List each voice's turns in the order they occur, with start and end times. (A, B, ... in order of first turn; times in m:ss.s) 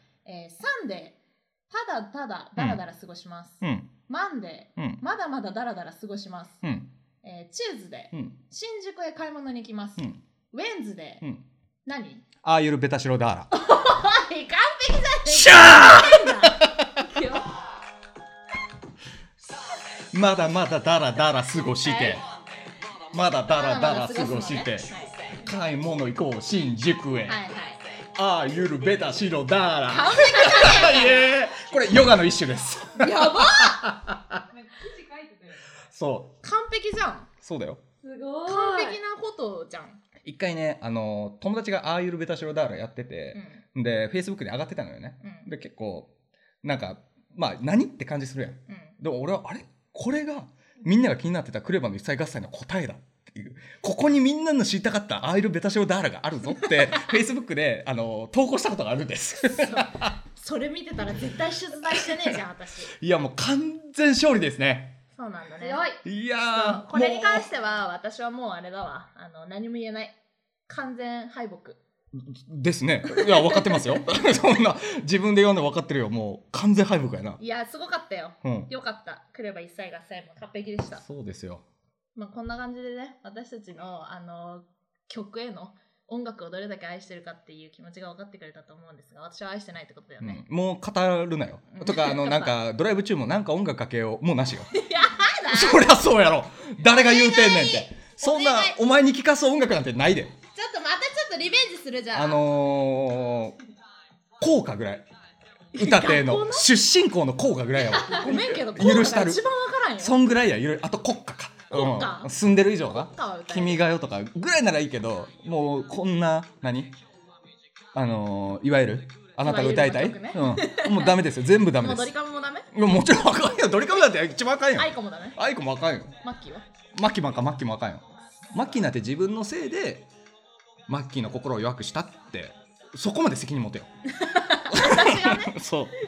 0:00.2-0:01.2 A
0:01.7-0:06.6 A
0:03.6-0:03.9 B
0:07.2-0:11.2 A
0:11.8-0:12.2 A
0:12.4-0:13.5 B
0:13.5-0:17.6 A
0:15.2-0:17.0 B
0:20.1-0:22.2 B
0:21.8-0:22.2 A
0:23.0-0:27.4 B
0:23.5-0:25.4 A
0:27.2-0:27.9 A
0:28.1-0:34.4 B
0:29.9-0:31.4 A
0:33.0-0:33.9 A
0:34.5-0:35.8 C
0:35.9-0:36.3 B
0:36.4-0:37.3 A
0:37.4-0:37.8 B
0:38.0-0:39.0 C
0:38.4-0:40.0 A
0:40.2-0:46.1 B
0:43.3-0:43.6 A
0:45.2-0:45.5 A
0:46.6-1:00.1 B
0:48.7-0:48.9 A
0:59.5-1:02.9 A
1:03.0-1:05.0 B
1:05.1-1:05.9 A
1:05.6-1:06.0 C
1:06.0-1:07.5 B
1:06.4-1:10.2 A
1:10.7-1:11.8 A
1:12.1-1:17.4 B
1:13.1-1:14.0 A
1:17.4-1:21.0 A
1:18.4-1:18.7 B
1:21.0-1:21.6 B
1:22.1-1:30.4 A
1:30.2-1:34.7 B
1:31.7-1:32.6 A
1:34.7-1:36.0 A
1:35.5-1:40.3 B
1:36.8-1:38.8 A
1:40.5-1:42.4 A
1:42.1-1:43.6 B
1:44.4-1:45.0 B
1:45.8-1:46.7 A
1:45.8-1:49.4 B
1:47.9-1:50.2 A
1:50.0-1:56.9 B
1:51.7-1:52.3 A
1:52.9-1:53.9 A
1:57.9-2:02.1 B
1:59.4-2:01.2 A
2:01.8-2:02.7 A
2:02.7-2:06.2 B
2:04.8-2:05.4 A
2:06.2-2:06.6 A
2:07.0-2:10.0 B
2:10.9-2:13.9 B
2:14.1-2:15.6 A
2:14.7-2:15.9 B